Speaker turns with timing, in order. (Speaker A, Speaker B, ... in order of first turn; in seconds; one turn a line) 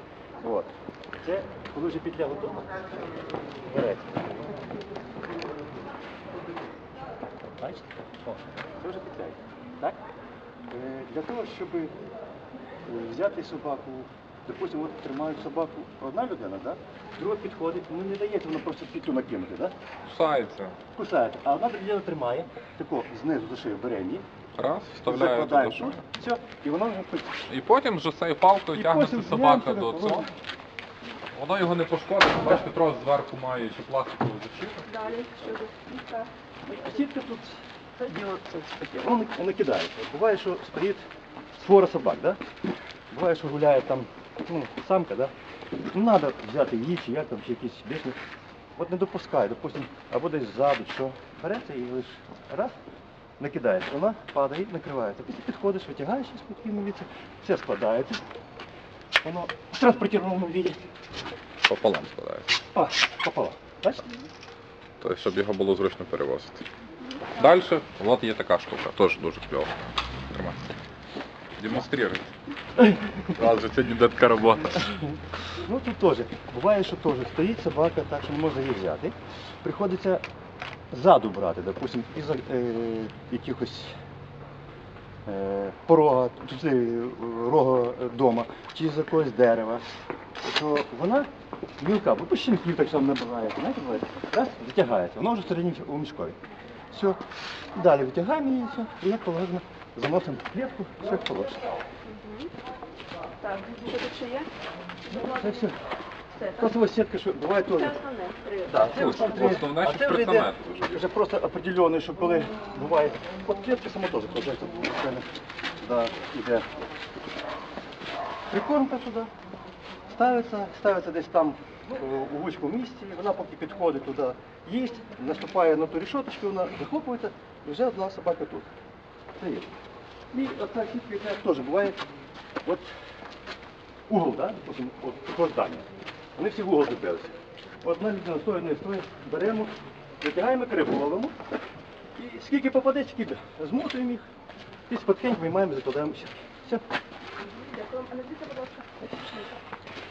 Speaker A: 0.4-2.9
Speaker A: 3.7-4.4
Speaker A: 7.6-10.0
Speaker A: 10.7-11.9
Speaker A: 12.8-19.8
Speaker B: 20.1-20.8
Speaker A: 20.9-24.2
Speaker B: 24.6-26.0
Speaker A: 25.1-27.4
Speaker B: 27.5-30.3
Speaker A: 28.7-30.3
Speaker B: 31.3-34.9
Speaker C: 34.9-36.3
Speaker A: 36.7-41.0
Speaker A: 41.5-42.4
Speaker A: 43.1-45.3
Speaker A: 45.9-48.2
Speaker A: 48.8-52.8
Speaker A: 53.4-58.2
Speaker A: 59.2-60.8
Speaker B: 61.6-62.6
Speaker A: 62.7-64.2
Speaker B: 65.0-66.7
Speaker C: 67.0-67.3
Speaker B: 67.3-69.8
Speaker B: 70.3-70.8
Speaker B: 71.6-72.3
Speaker A: 72.8-73.4
Speaker B: 73.3-75.0
Speaker A: 74.7-80.2
Speaker A: 80.9-84.0
Speaker A: 85.3-96.4
Speaker A: 96.9-97.2
Speaker A: 97.7-101.6
Speaker C: 102.1-102.5
Speaker C: 103.4-104.5
Speaker C: 105.1-105.6
Speaker A: 105.1-105.8
Speaker C: 106.3-106.7
Speaker A: 106.5-108.1
Speaker C: 107.7-109.6
Speaker A: 108.6-116.7
Speaker B: 108.9-111.0
Speaker A: 118.5-119.3
Speaker A: 120.1-128.7
Speaker A: 129.4-129.7
Speaker A: 130.3-132.0
Speaker A: 132.6-133.0
Speaker A: 134.1-141.4
Speaker A: 142.2-144.3
Speaker A: 144.9-146.8
Speaker C: 147.5-149.6